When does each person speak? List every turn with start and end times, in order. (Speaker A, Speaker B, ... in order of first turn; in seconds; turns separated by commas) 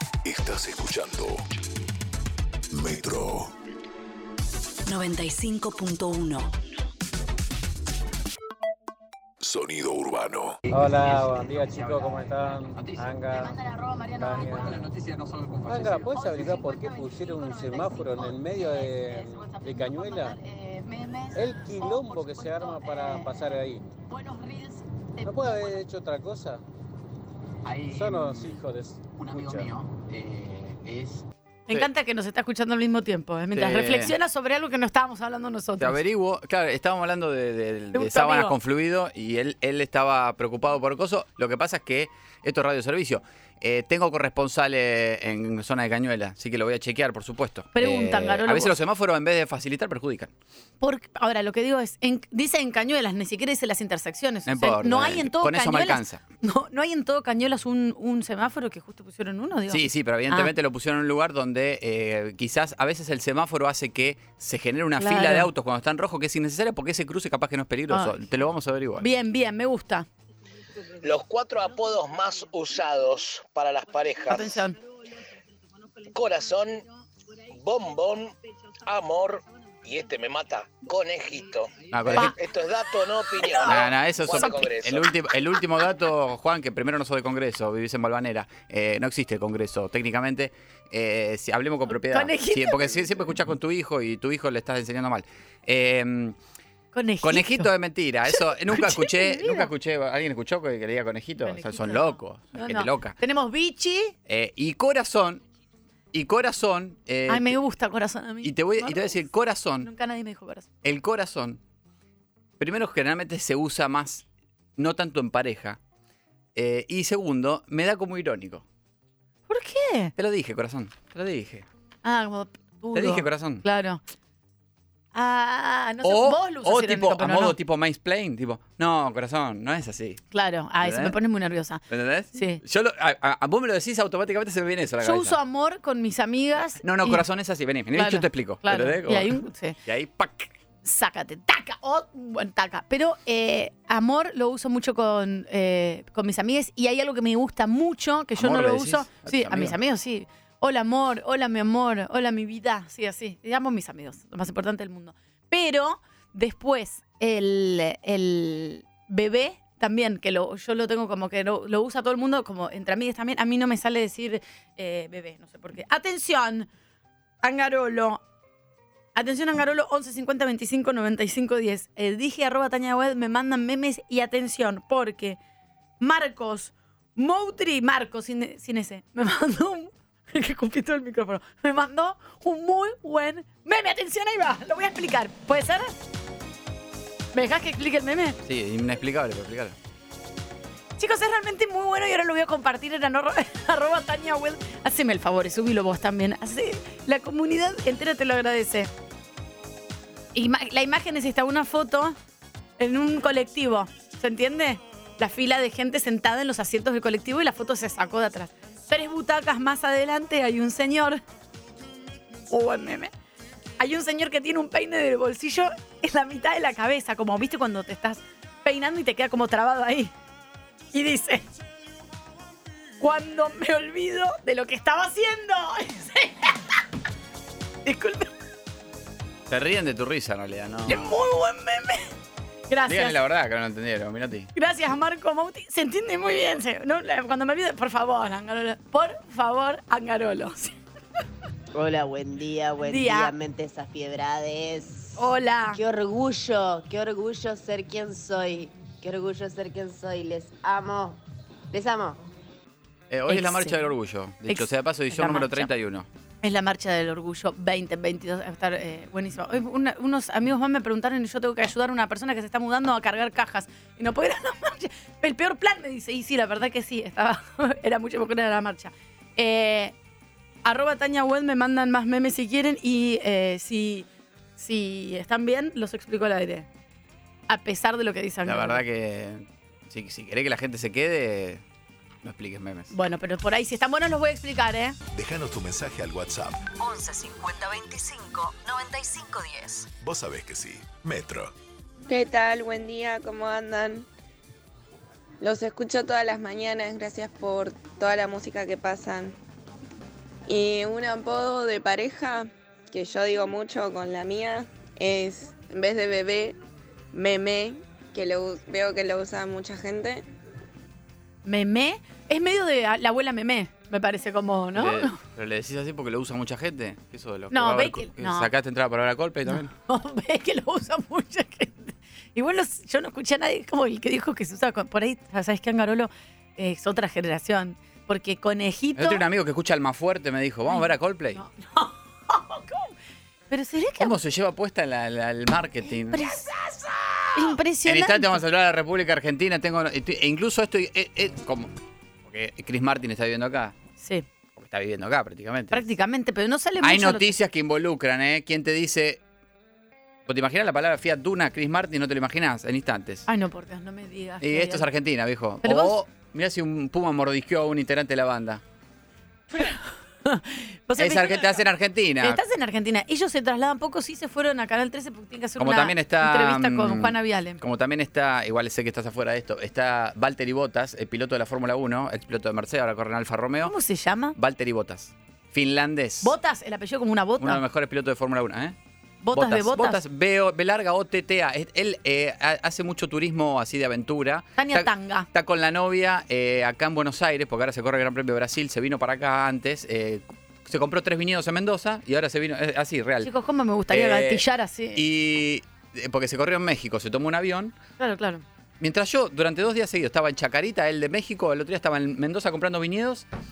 Speaker A: 0.2-1.4, Speaker A: 2.7-3.5, Speaker B: 4.8-6.5, Speaker A: 9.4-10.6, Speaker C: 10.7-13.6, Speaker D: 10.7-12.1, Speaker D: 12.7-13.0, Speaker E: 13.3-14.7, Speaker C: 14.2-14.8, Speaker D: 14.5-16.1, Speaker C: 15.7-20.4, Speaker E: 16.1-23.6, Speaker C: 21.3-23.8, Speaker E: 24.1-25.8, Speaker C: 25.2-26.6, Speaker D: 27.6-28.6, Speaker C: 27.9-29.7, Speaker D: 29.1-31.9, Speaker E: 31.7-36.0, Speaker D: 33.5-34.1, Speaker D: 35.8-50.3, Speaker E: 37.9-38.5, Speaker E: 47.7-48.7, Speaker E: 50.8-60.5, Speaker D: 54.5-56.2, Speaker D: 59.7-69.1, Speaker E: 65.0-65.5, Speaker E: 67.9-68.2, Speaker E: 69.0-70.1, Speaker F: 71.0-74.6, Speaker E: 74.3-74.8, Speaker F: 76.1-76.8, Speaker F: 77.5-78.3, Speaker F: 78.8-85.1, Speaker D: 81.9-82.3, Speaker E: 82.1-82.4, Speaker E: 83.3-84.7, Speaker D: 83.6-96.4, Speaker E: 91.9-93.0, Speaker E: 96.9-97.7, Speaker D: 97.2-103.2, Speaker E: 98.3-99.7, Speaker E: 101.4-104.1, Speaker D: 104.3-105.4, Speaker D: 106.1-107.5, Speaker E: 107.3-109.2, Speaker D: 108.4-109.9, Speaker E: 109.8-110.7, Speaker D: 110.8-111.6, Speaker D: 112.6-114.2, Speaker D: 114.8-115.8, Speaker D: 116.5-118.6, Speaker E: 119.5-120.1, Speaker D: 120.2-121.7, Speaker E: 122.0-124.0, Speaker D: 122.9-123.6, Speaker E: 125.1-127.5, Speaker D: 126.0-130.2, Speaker E: 130.3-131.8, Speaker D: 130.8-131.2, Speaker D: 131.9-135.4, Speaker E: 132.3-132.6, Speaker E: 135.0-137.2, Speaker D: 136.7-140.5, Speaker E: 137.9-139.8, Speaker E: 140.8-166.7, Speaker D: 148.3-149.8, Speaker E: 167.4-168.2, Speaker E: 169.1-175.4, Speaker E: 176.0-186.0, Speaker E: 187.3-188.4, Speaker D: 188.4-189.7, Speaker E: 191.0-198.9, Speaker E: 200.3-202.2, Speaker E: 202.8-211.2, Speaker E: 212.5-213.1, Speaker E: 213.8-220.1, Speaker E: 220.9-221.4, Speaker E: 223.0-226.6, Speaker E: 227.8-228.3, Speaker D: 229.5-231.1, Speaker E: 230.9-232.1, Speaker E: 232.7-233.2, Speaker D: 232.8-234.5, Speaker E: 234.5-240.7, Speaker G: 241.7-251.2, Speaker E: 242.8-243.3, Speaker E: 245.2-245.8, Speaker G: 251.7-252.2, Speaker D: 253.1-256.1, Speaker E: 253.3-253.8, Speaker E: 254.5-255.7, Speaker E: 256.4-269.9, Speaker E: 270.6-274.1, Speaker E: 274.6-276.7, Speaker E: 277.5-278.8, Speaker D: 278.4-281.6, Speaker D: 282.2-282.9, Speaker E: 282.9-285.0, Speaker A: 285.1-286.6, Speaker B: 286.8-289.9, Speaker A: 290.0-291.5, Speaker H: 292.1-294.1, Speaker H: 295.4-299.4, Speaker H: 300.5-306.6, Speaker H: 307.1-310.2, Speaker E: 311.4-315.2, Speaker D: 314.7-319.7, Speaker E: 317.5-318.5, Speaker E: 319.5-329.2, Speaker D: 328.9-331.4, Speaker E: 330.7-332.9, Speaker E: 333.5-334.2, Speaker D: 334.0-336.4, Speaker E: 336.1-336.5, Speaker E: 337.3-338.4, Speaker D: 337.4-343.8, Speaker E: 344.0-344.2, Speaker D: 344.6-345.9, Speaker E: 345.7-347.4, Speaker D: 346.8-349.2, Speaker D: 350.2-353.2, Speaker E: 353.3-354.9, Speaker D: 354.4-358.6, Speaker E: 355.6-356.0, Speaker E: 359.5-361.6, Speaker D: 361.0-362.4, Speaker E: 362.2-367.6, Speaker D: 365.6-373.7, Speaker E: 373.6-374.3, Speaker D: 374.4-376.3, Speaker E: 376.2-377.6, Speaker D: 377.4-378.8, Speaker E: 379.2-380.0, Speaker D: 379.3-393.3, Speaker E: 384.6-385.3, Speaker E: 393.2-395.0, Speaker D: 393.9-394.4, Speaker D: 394.9-397.8, Speaker E: 398.0-398.4, Speaker D: 398.8-403.2